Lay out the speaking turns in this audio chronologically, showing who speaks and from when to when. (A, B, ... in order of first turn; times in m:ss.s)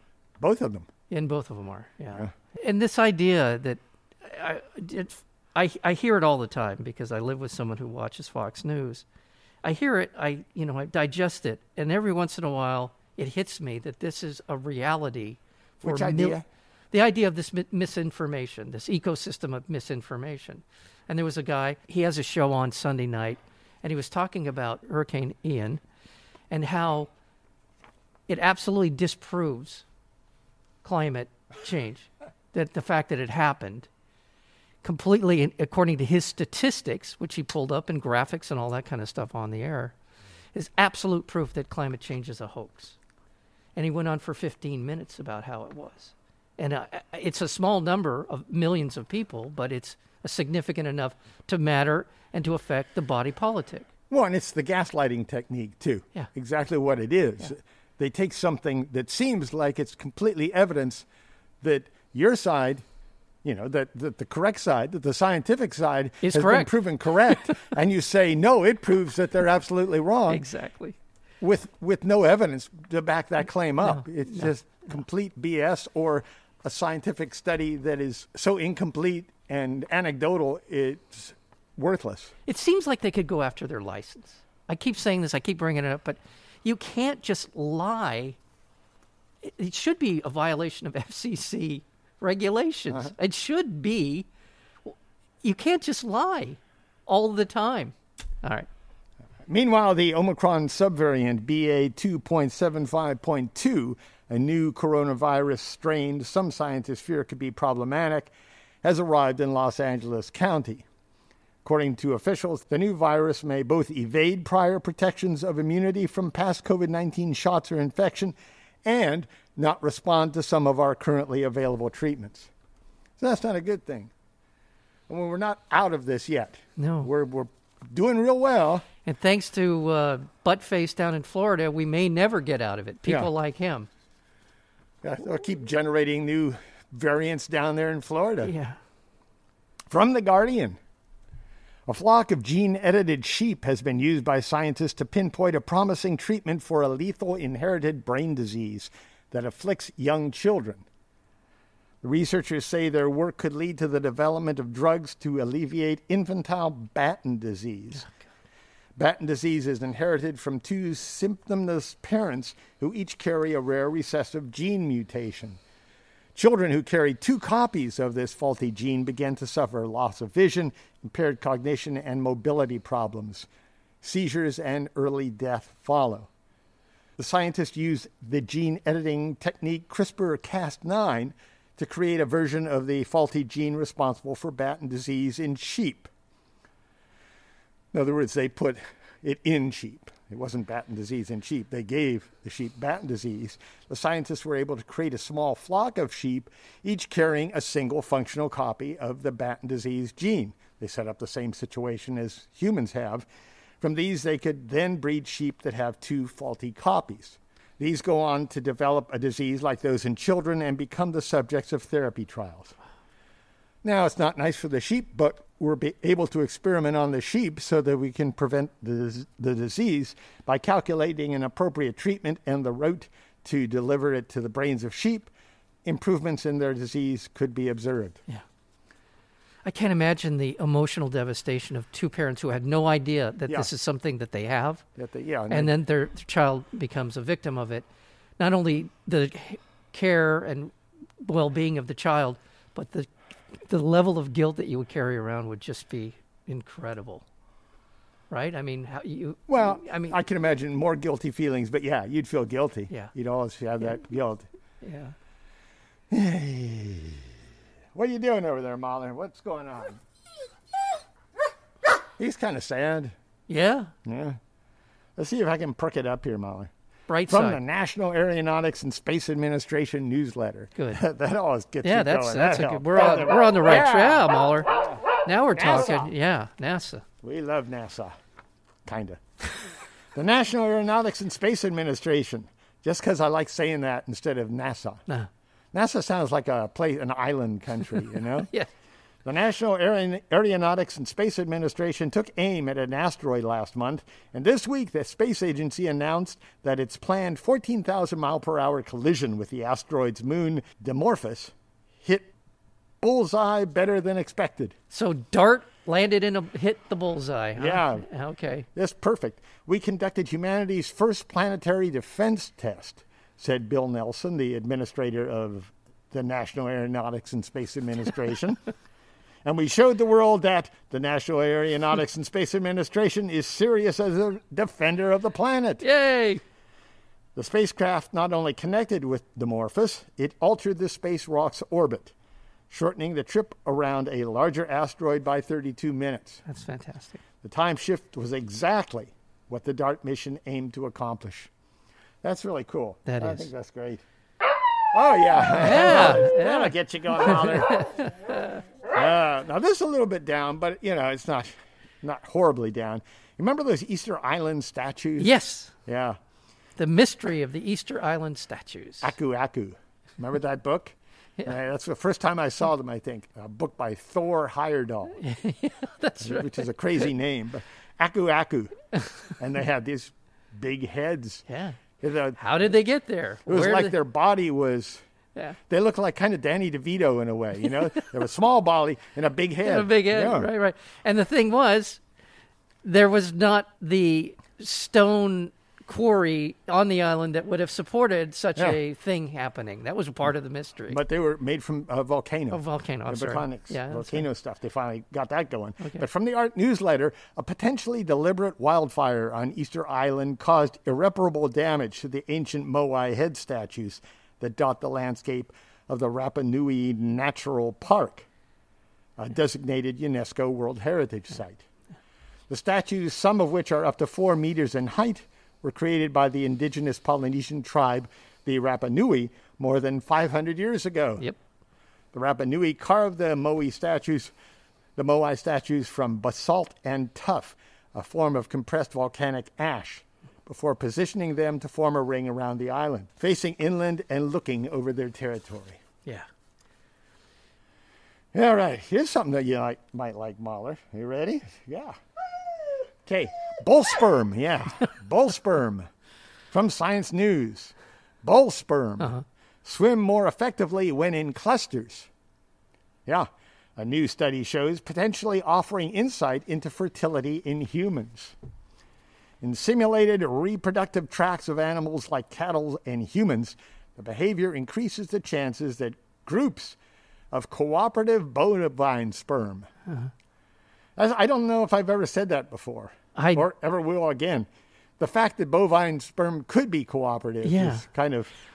0:00.4-0:00.9 A
0:01.1-0:09.0 B
0:09.6-0:16.4 B
0:15.8-0:16.4 A
0:16.9-0:25.8 B
0:26.5-0:27.1 B
0:28.3-0:29.8 B
0:30.8-0:33.9 B
0:34.8-0:40.0 B
0:40.5-0:43.0 B
0:43.8-0:53.9 B
0:54.1-1:01.1 A
1:01.6-1:02.8 A
1:03.4-1:10.5 A
1:06.2-1:06.7 B
1:10.3-1:11.0 B
1:11.4-1:22.3 A
1:13.8-1:14.5 B
1:22.5-1:28.4 B
1:29.4-1:34.3 B
1:34.9-1:38.7 B
1:39.5-1:48.3 A
1:48.8-1:50.8 A
1:51.6-2:02.5 A
2:03.2-2:04.1 A
2:05.1-2:08.8 A
2:06.8-2:07.1 B
2:09.0-2:13.9 B
2:15.0-2:18.5 A
2:18.4-2:18.8 B
2:19.9-2:20.8 A
2:21.9-2:30.8 A
2:32.0-2:38.1 A
2:39.0-2:45.6 A
2:46.4-2:53.5 A
2:54.0-2:56.3 A
2:57.2-3:06.1 A
3:07.9-3:23.3 A
3:23.8-3:32.8 A
3:33.8-3:45.3 A
3:45.8-3:48.2 A
3:49.6-3:54.8 B
3:55.0-3:55.7 A
3:55.5-3:57.8 B
3:58.4-4:03.1 B
4:03.7-4:07.2 B
4:08.3-4:10.2 B
4:09.5-4:14.5 A
4:14.8-4:15.2 B
4:16.1-4:17.3 A
4:17.9-4:20.0 A
4:22.2-4:23.2 A
4:23.5-4:23.9 B
4:24.0-4:24.4 A
4:25.2-4:26.7 A
4:27.1-4:27.6 B
4:27.3-4:35.0 A
4:31.8-4:37.0 B
4:35.6-4:36.1 A
4:37.2-4:38.1 A
4:38.9-4:39.2 A
4:40.2-4:45.0 A
4:45.7-4:48.5 A
4:49.2-5:02.3 A
5:03.0-5:04.8 A
5:04.9-5:08.7 B
5:07.6-5:08.1 A
5:08.8-5:18.6 A
5:19.4-5:25.8 A
5:25.8-5:26.4 B
5:27.4-5:32.1 A
5:32.7-5:36.4 A
5:36.5-5:37.2 B
5:37.4-5:41.5 A
5:42.2-5:44.0 A
5:43.1-5:43.5 B
5:44.9-5:48.1 A
5:45.5-5:48.6 B
5:48.9-5:55.3 A
5:55.2-5:55.7 B
5:55.9-5:56.2 A
5:56.8-5:59.1 B
5:59.0-6:05.2 A
6:05.2-6:06.7 B
6:06.2-6:08.7 A
6:09.4-6:11.4 A
6:11.5-6:11.8 B
6:12.0-6:12.4 A
6:12.4-6:14.0 B
6:13.5-6:15.0 A
6:15.7-6:20.5 A
6:19.6-6:22.0 B
6:22.8-6:31.0 B
6:30.9-6:48.3 A
6:32.5-6:34.3 B
6:49.2-6:51.6 A
6:52.5-7:01.2 A
7:02.1-7:04.3 A
7:05.0-7:15.8 A
7:18.3-7:22.0 A
7:23.1-7:25.9 A
7:26.5-7:32.1 A
7:33.1-7:38.4 A
7:39.4-7:46.8 A
7:47.3-7:49.7 A
7:51.0-7:54.5 A
7:53.2-7:53.5 B
7:55.0-7:58.3 A
7:57.4-7:57.8 B